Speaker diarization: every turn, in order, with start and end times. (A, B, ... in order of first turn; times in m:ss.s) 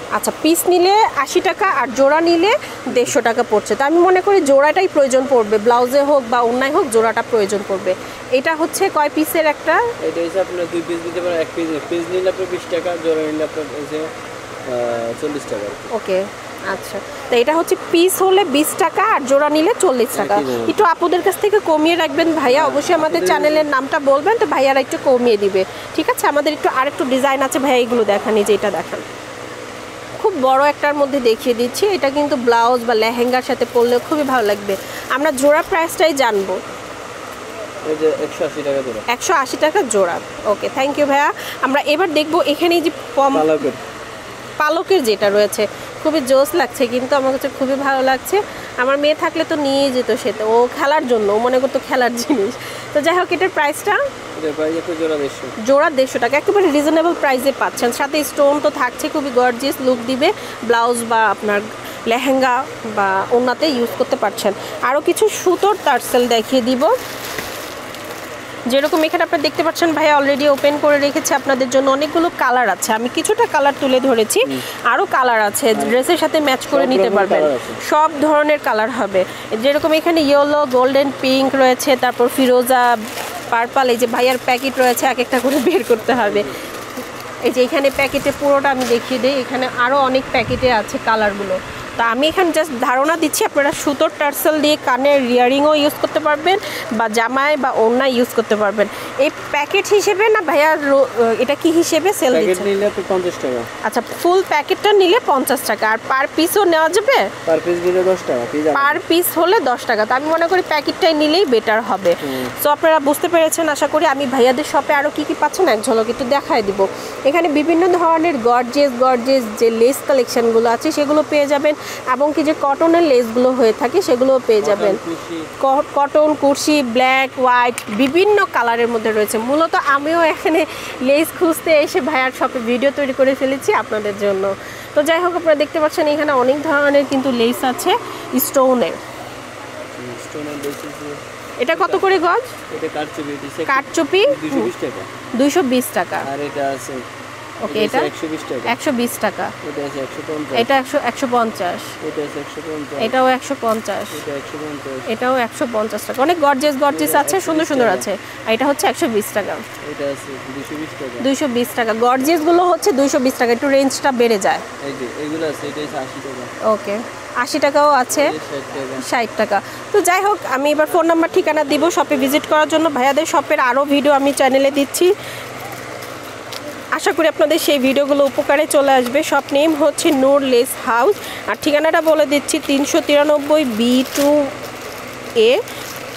0:00.2-0:09.9 A
0:10.0-0:14.1 B
0:14.7-0:15.9 B
0:15.9-0:29.0 A
0:20.1-0:20.8 B
0:22.5-0:23.7 B
0:30.2-0:36.6 A
0:37.8-0:39.1 B
0:39.1-0:43.5 A
0:43.3-0:43.8 B
0:44.6-0:54.0 A
0:54.4-0:55.6 B
0:55.6-1:06.9 A
1:08.7-1:23.0 A
1:15.8-1:16.1 B
1:16.7-1:17.8 B
1:23.5-1:26.5 A
1:26.2-1:26.5 B
1:27.4-1:42.7 A
1:42.3-1:43.7 B
1:43.8-1:47.3 A
1:47.5-1:49.0 B
1:48.7-2:05.0 A
1:52.2-1:52.5 B
2:04.6-2:05.5 B
2:05.6-2:19.0 A
2:20.0-2:21.2 B
2:21.6-2:22.5 A
2:21.7-2:22.1 B
2:22.7-2:25.1 B
2:23.7-2:24.7 A
2:25.4-2:26.3 A
2:26.2-2:27.1 B
2:27.6-2:28.1 A
2:27.7-2:28.8 B
2:28.7-2:29.5 A
2:29.6-2:30.7 B
2:30.6-2:31.9 A
2:32.0-2:33.2 B
2:33.0-2:34.2 A
2:34.1-2:35.1 B
2:35.1-2:39.7 A
2:36.9-2:38.1 B
2:39.8-2:41.3 B
2:41.2-2:44.6 A
2:44.8-2:46.5 B
2:46.6-2:48.4 A
2:48.1-2:49.1 B
2:49.0-2:55.1 A
2:57.0-3:04.5 A
3:05.4-3:05.6 A